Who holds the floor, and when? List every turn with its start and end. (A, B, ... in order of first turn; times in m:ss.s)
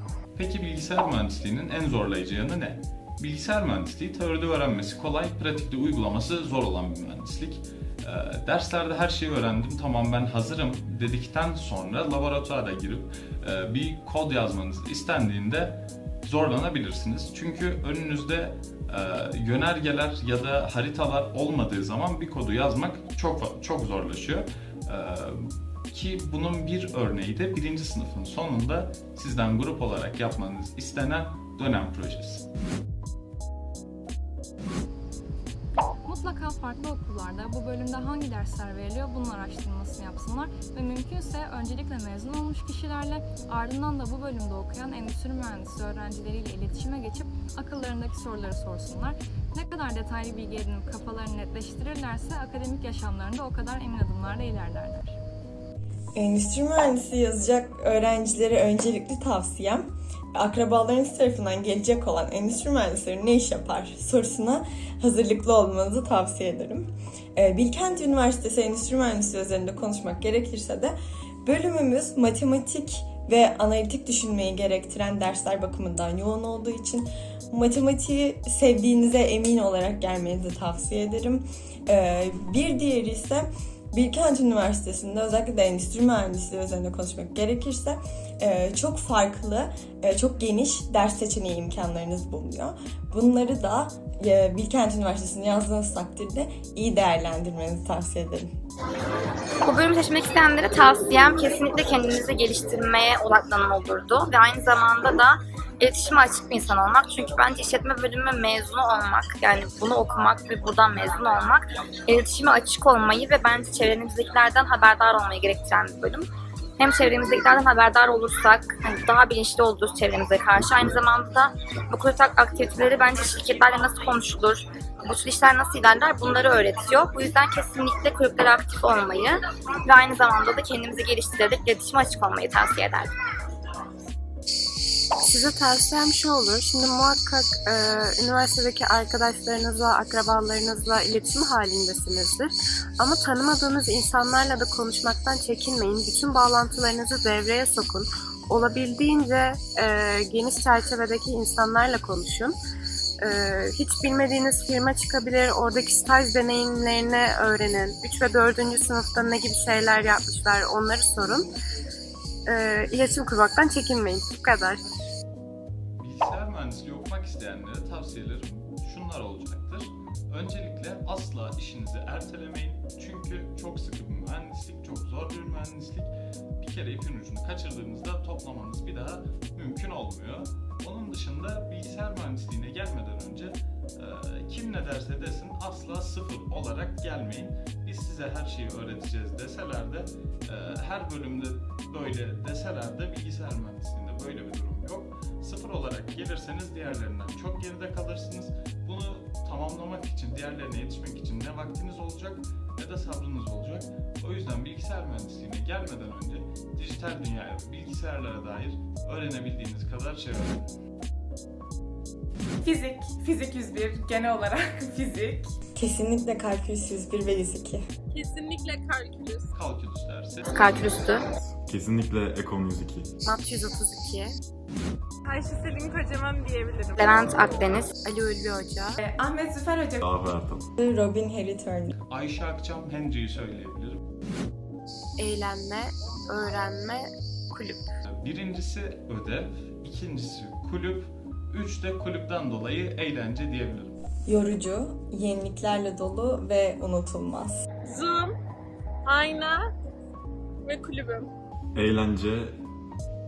0:00.3-0:32.4 A
0:36.0-0:55.2 B
0:56.2-1:38.5 C
1:39.6-1:56.3 D
1:56.8-2:13.1 D
2:15.2-2:32.5 E
2:33.2-2:41.5 E
2:42.4-2:44.8 E
2:46.0-3:30.6 A
3:32.6-3:35.5 F
3:35.8-3:37.8 C
3:38.1-3:39.5 G
3:39.5-3:40.5 A
3:40.5-3:41.2 D
3:41.6-3:43.1 H
3:43.2-3:44.3 E
3:45.2-3:47.2 G
3:47.0-3:47.9 D
3:48.0-3:49.0 E
3:49.0-3:50.0 F
3:50.0-3:50.7 H
3:50.8-3:51.9 C
3:52.1-3:54.0 A
3:55.2-3:57.8 E
3:58.0-4:04.0 A
4:04.2-4:07.6 C
4:07.8-4:08.4 G
4:09.0-4:09.7 G
4:10.6-4:11.3 G
4:11.7-4:12.5 H